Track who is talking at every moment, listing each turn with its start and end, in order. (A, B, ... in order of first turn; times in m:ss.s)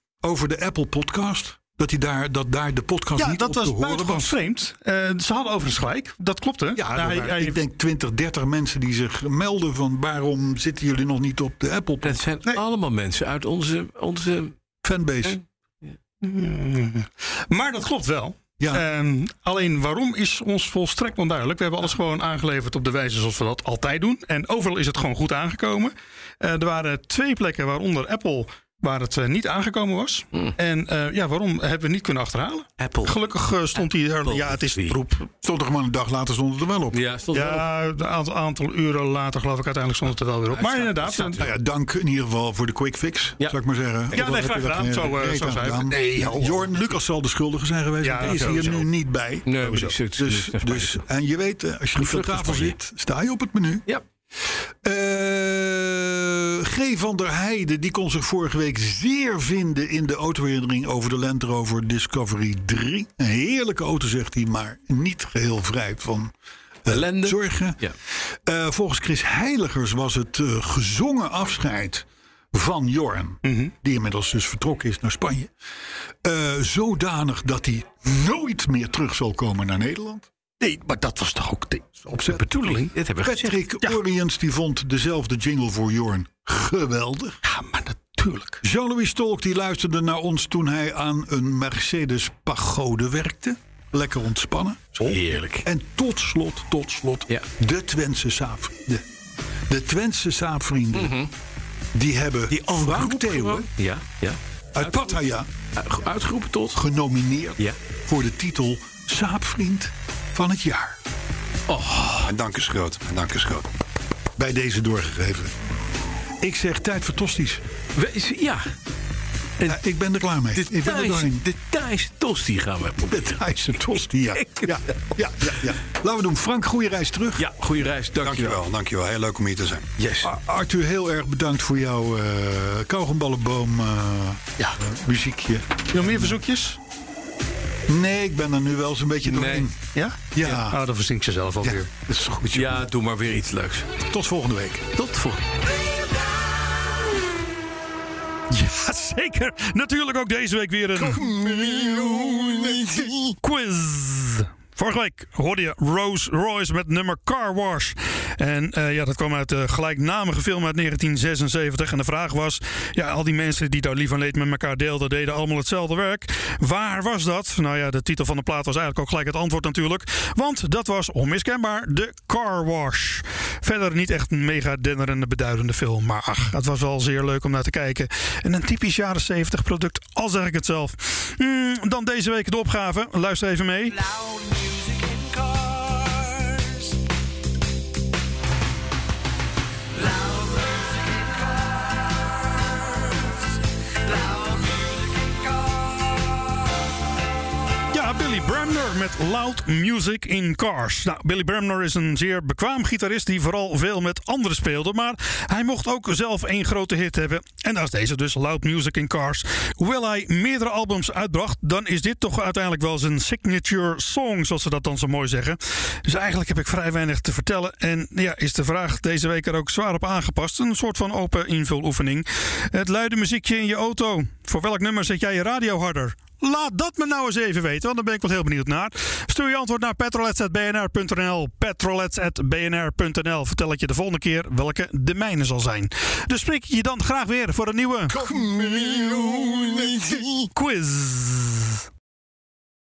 0:00.2-0:04.4 A
0:03.2-0:07.6 B
0:06.7-0:12.2 A
0:12.0-0:14.5 C
0:14.8-0:15.4 A
0:15.2-0:15.9 C
0:16.2-0:35.3 B
0:18.6-0:18.8 A
0:32.8-0:33.2 C
0:33.8-0:35.0 C
0:35.4-0:37.0 A
0:36.9-0:37.7 C
0:37.3-0:41.4 B
0:40.5-0:41.5 C
0:41.4-0:53.8 A
0:44.1-0:46.7 B
0:48.0-0:48.8 B
0:49.4-0:51.0 C
0:52.0-0:52.8 C
0:54.8-1:06.3 A
1:06.8-1:15.5 A
1:06.9-1:07.9 C
1:13.4-1:13.7 B
1:16.2-1:20.3 A
1:20.6-1:22.8 B
1:22.1-1:27.4 A
1:22.6-1:23.6 C
1:27.4-1:28.6 B
1:28.6-1:39.0 A
1:35.0-1:35.7 C
1:39.7-1:41.2 A
1:40.9-1:41.3 C
1:41.9-1:43.7 A
1:42.5-1:45.1 C
1:44.7-1:45.5 A
1:45.8-1:46.8 C
1:46.7-1:51.0 A
1:51.7-1:52.3 C
1:52.2-1:53.7 D
1:54.4-1:55.5 A
1:56.4-1:57.6 A
1:58.0-1:58.6 C
1:59.6-2:01.4 A
2:00.5-2:03.6 C
2:03.1-2:07.5 A
2:04.3-2:05.1 C
2:07.4-2:08.6 C
2:08.2-2:09.9 D
2:10.0-2:10.3 C
2:10.2-2:16.4 A
2:15.9-2:16.8 B
2:17.9-2:19.8 A
2:19.3-2:19.7 C
2:19.9-2:21.9 B
2:20.3-2:20.8 A
2:21.6-2:22.8 A
2:22.5-2:23.9 C
2:24.0-2:24.9 A
2:24.9-2:25.5 C
2:28.5-3:04.0 B
2:30.9-2:33.1 A
3:04.3-3:06.0 E
3:10.1-3:11.9 E
3:14.1-3:15.3 E
3:17.9-3:58.4 B
3:58.8-3:59.7 D
3:59.6-4:01.8 B